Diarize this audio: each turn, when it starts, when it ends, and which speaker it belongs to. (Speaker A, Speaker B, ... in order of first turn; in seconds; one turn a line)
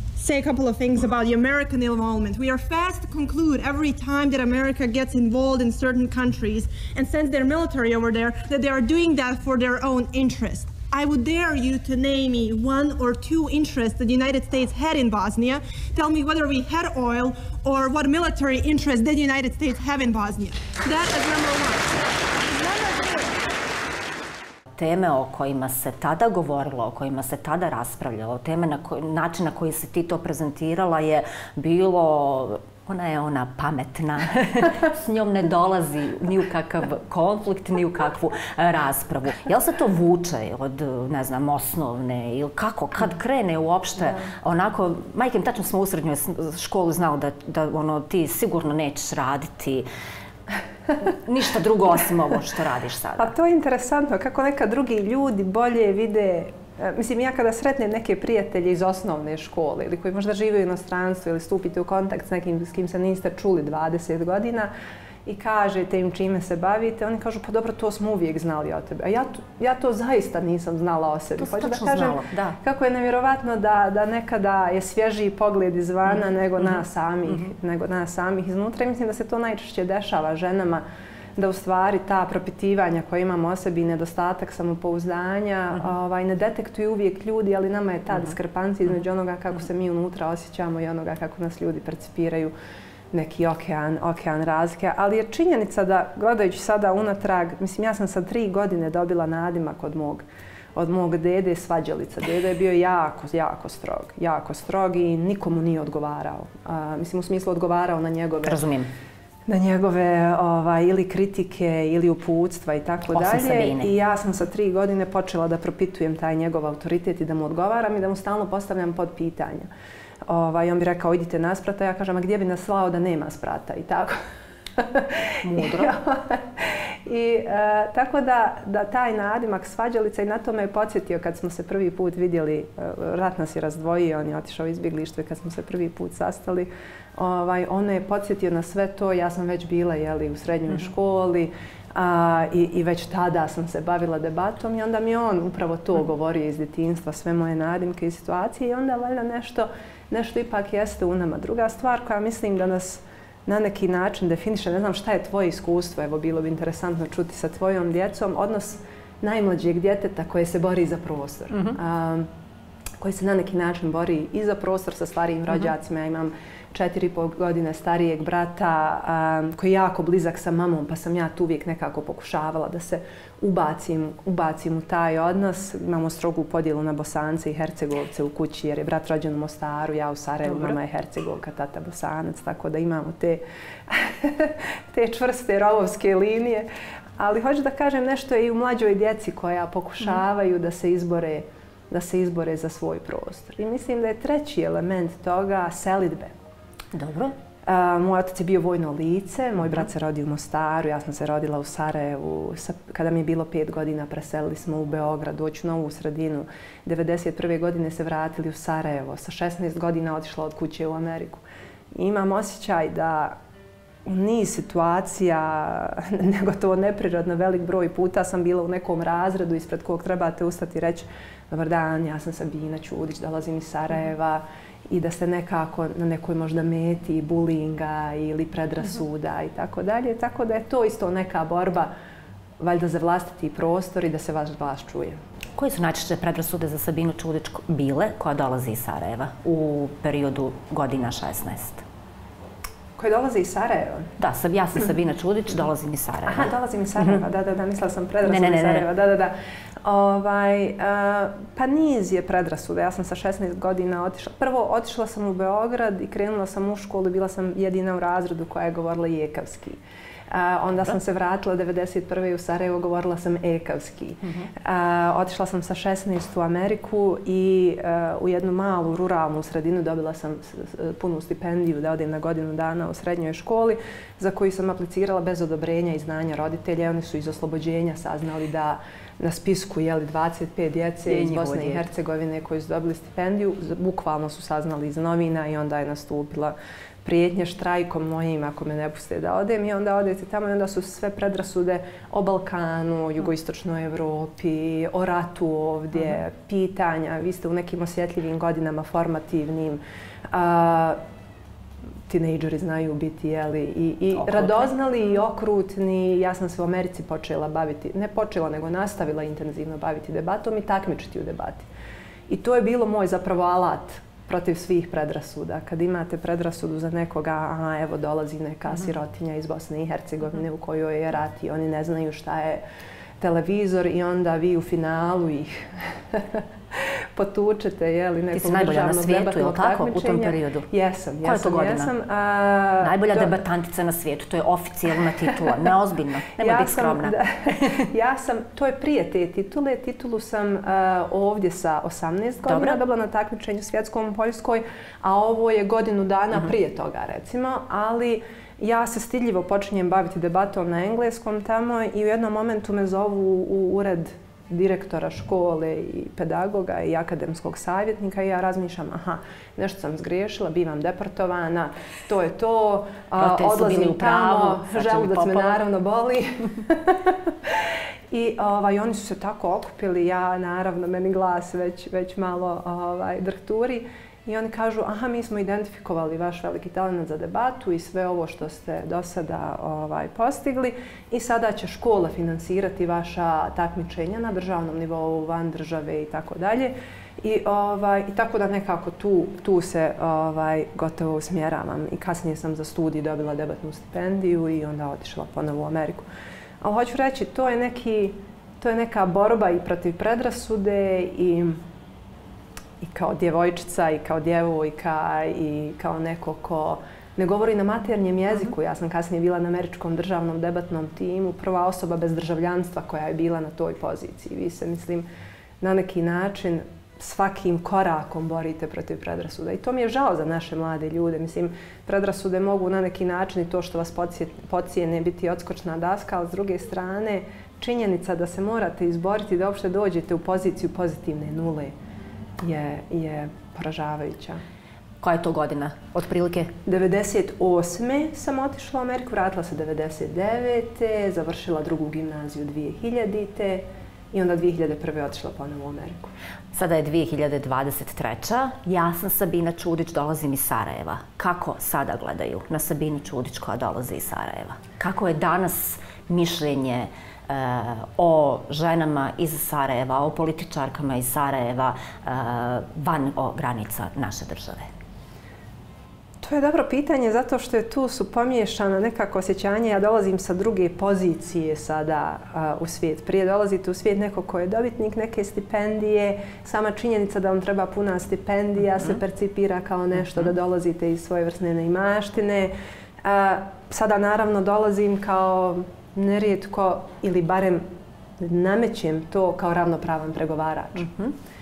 Speaker A: 0.1-21.9
Speaker A: 22.4-23.3
Speaker B: 24.7-49.9
Speaker B: 51.0-53.3
Speaker C: 53.2-64.7
Speaker C: 65.2-80.8
Speaker B: 71.4-72.6
Speaker C: 81.3-92.5
Speaker C: 93.1-108.6
Speaker B: 108.4-108.9
Speaker C: 109.5-119.7
Speaker B: 113.1-113.9
Speaker C: 120.3-124.2
Speaker C: 124.8-162.3
Speaker B: 125.4-125.9
Speaker C: 163.0-196.3
Speaker B: 196.9-197.3
Speaker C: 197.6-211.4
Speaker C: 211.9-213.3
Speaker C: 214.0-231.9
Speaker C: 232.6-235.2
Speaker B: 235.6-241.8
Speaker C: 243.0-244.1
Speaker B: 244.2-247.2
Speaker C: 246.2-301.0
Speaker B: 248.2-248.9
Speaker B: 281.1-281.9
Speaker C: 302.1-311.6
Speaker B: 304.2-304.7
Speaker C: 312.3-322.6
Speaker C: 323.2-333.4
Speaker B: 328.3-330.7
Speaker B: 331.2-331.9
Speaker B: 332.8-337.9
Speaker C: 336.4-396.1
Speaker B: 342.5-342.8
Speaker B: 363.2-365.6
Speaker C: 396.6-401.6
Speaker C: 402.8-415.1
Speaker C: 415.6-431.7
Speaker C: 432.4-434.4
Speaker B: 435.0-436.5
Speaker C: 436.6-446.1
Speaker B: 446.5-464.7
Speaker C: 466.2-487.6
Speaker C: 488.2-490.9
Speaker B: 490.8-491.1